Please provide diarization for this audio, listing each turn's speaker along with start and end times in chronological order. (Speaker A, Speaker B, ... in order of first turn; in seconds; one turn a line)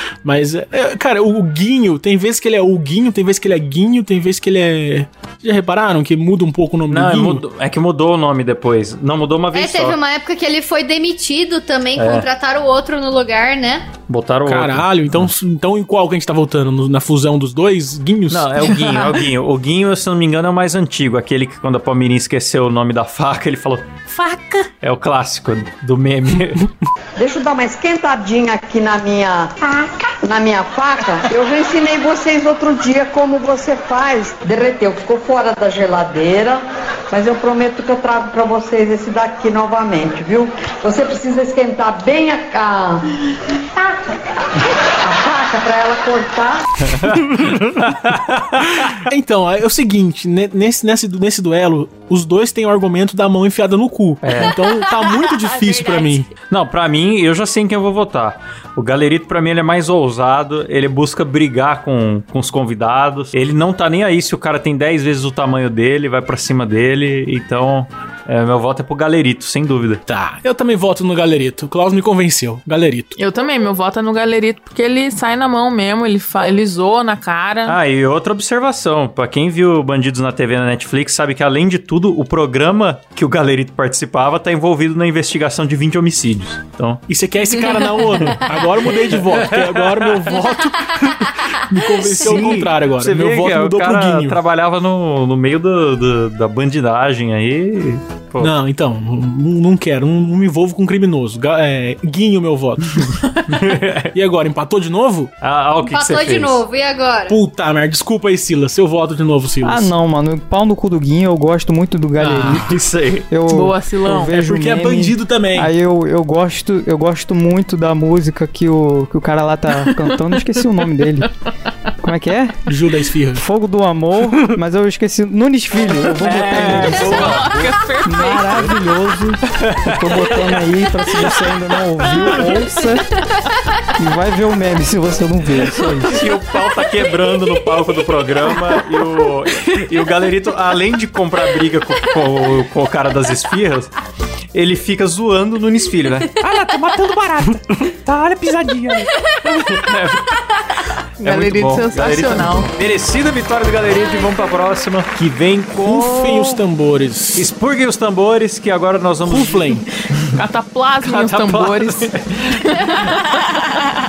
Speaker A: 0.2-7.4
Speaker B: 6.9-10.0
Speaker C: 9.5-13.8
Speaker B: 11.9-12.3
Speaker B: 14.1-15.3
Speaker A: 14.4-18.8
Speaker B: 18.3-26.7
Speaker D: 27.2-29.6
Speaker D: 30.2-43.0
Speaker D: 45.0-46.9
Speaker B: 46.9-49.0
Speaker A: 47.1-47.9
Speaker A: 48.8-56.3
Speaker B: 54.2-54.5
Speaker C: 54.6-56.2
Speaker B: 56.5-70.0
Speaker A: 70.1-73.2
Speaker E: 73.2-77.8
Speaker B: 77.7-87.0
Speaker A: 87.1-94.4
Speaker B: 88.2-88.5
Speaker B: 89.1-90.4
Speaker B: 92.0-98.5
Speaker A: 98.4-103.2
Speaker B: 103.0-104.1
Speaker A: 104.1-105.3
Speaker B: 105.4-106.6
Speaker C: 105.8-107.3
Speaker A: 107.3-109.9
Speaker F: 109.6-112.8
Speaker A: 112.2-112.8
Speaker B: 112.6-113.3
Speaker F: 113.3-121.3
Speaker E: 113.5-114.4
Speaker A: 114.3-115.7
Speaker F: 122.0-122.6
Speaker A: 122.7-123.4
Speaker F: 123.3-127.5
Speaker B: 126.1-127.7
Speaker E: 126.6-128.7
Speaker F: 128.0-133.1
Speaker B: 129.6-130.6
Speaker F: 133.9-136.2
Speaker B: 136.0-143.9
Speaker C: 137.2-137.6
Speaker B: 144.5-150.4
Speaker E: 151.2-152.7
Speaker B: 151.2-156.6
Speaker C: 154.1-154.4
Speaker A: 155.8-157.5
Speaker B: 157.3-160.3
Speaker A: 159.2-159.9
Speaker E: 160.3-163.2
Speaker B: 161.0-163.1